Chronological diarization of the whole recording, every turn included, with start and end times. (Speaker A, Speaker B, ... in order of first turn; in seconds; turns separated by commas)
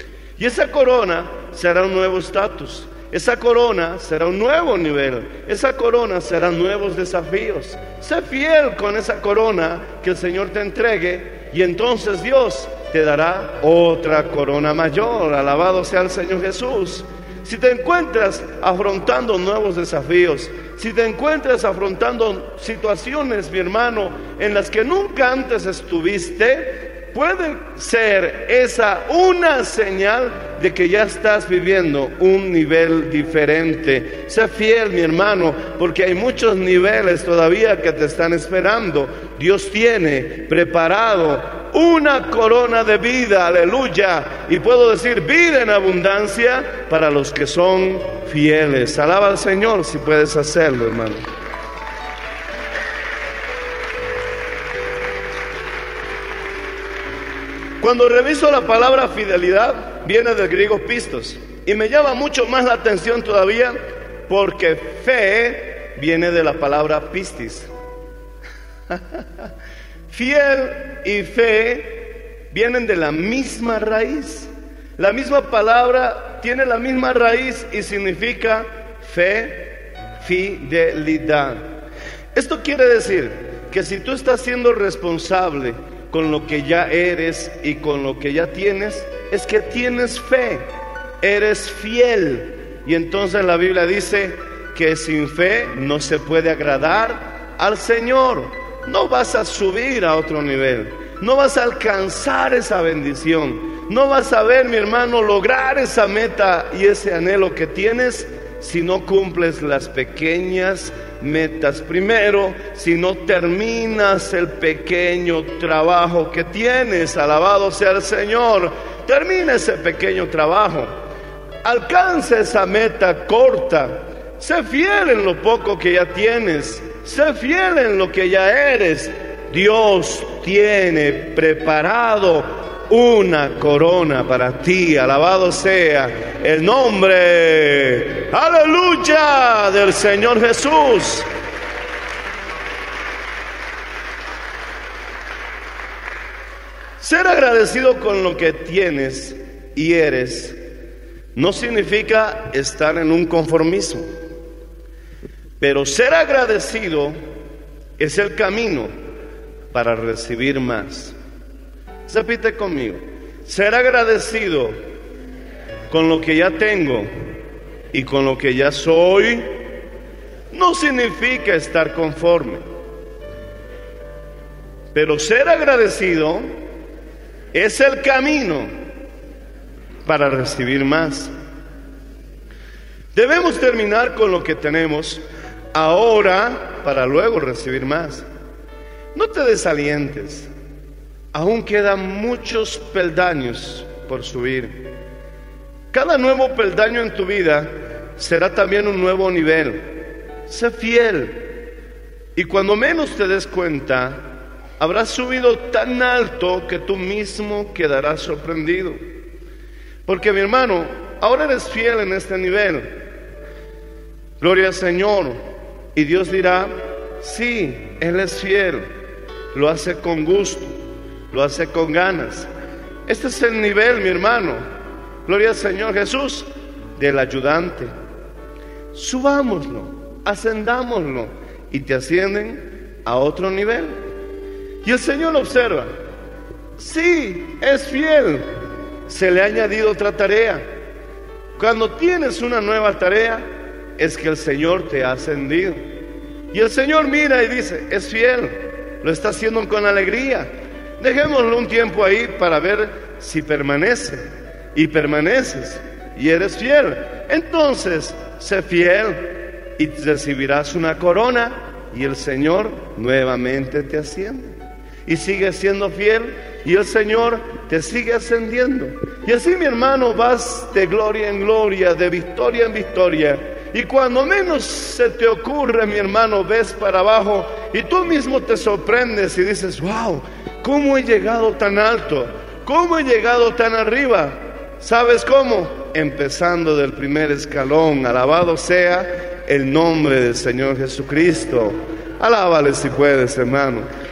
Speaker A: 0.4-51.2, Speaker A: 57.8-67.7, Speaker A: 68.9-69.2, Speaker A: 70.1-81.6, Speaker A: 82.3-90.7, Speaker A: 91.2-120.9, Speaker A: 121.6-141.3, Speaker A: 147.0-150.6, Speaker A: 151.3-154.1, Speaker A: 155.6-157.2, Speaker A: 158.0-158.9, Speaker A: 159.7-161.1, Speaker A: 162.1-164.8, Speaker A: 165.9-167.1, Speaker A: 167.9-169.7, Speaker A: 170.5-172.6, Speaker A: 174.9-176.5, Speaker A: 177.5-178.7, Speaker A: 180.0-181.3, Speaker A: 183.1-185.2, Speaker A: 185.7-188.2, Speaker A: 189.1-190.5, Speaker A: 191.3-194.9, Speaker A: 195.9-201.5, Speaker A: 202.3-204.3, Speaker A: 204.8-209.0, Speaker A: 210.1-212.9, Speaker A: 214.4-215.4, Speaker A: 215.9-218.9, Speaker A: 219.5-220.8, Speaker A: 221.3-222.5, Speaker A: 223.1-224.6, Speaker A: 225.2-227.9, Speaker A: 228.9-234.0, Speaker A: 234.8-235.9, Speaker A: 236.8-238.6, Speaker A: 239.1-240.7, Speaker A: 241.6-245.9, Speaker A: 246.5-264.5, Speaker A: 265.1-293.9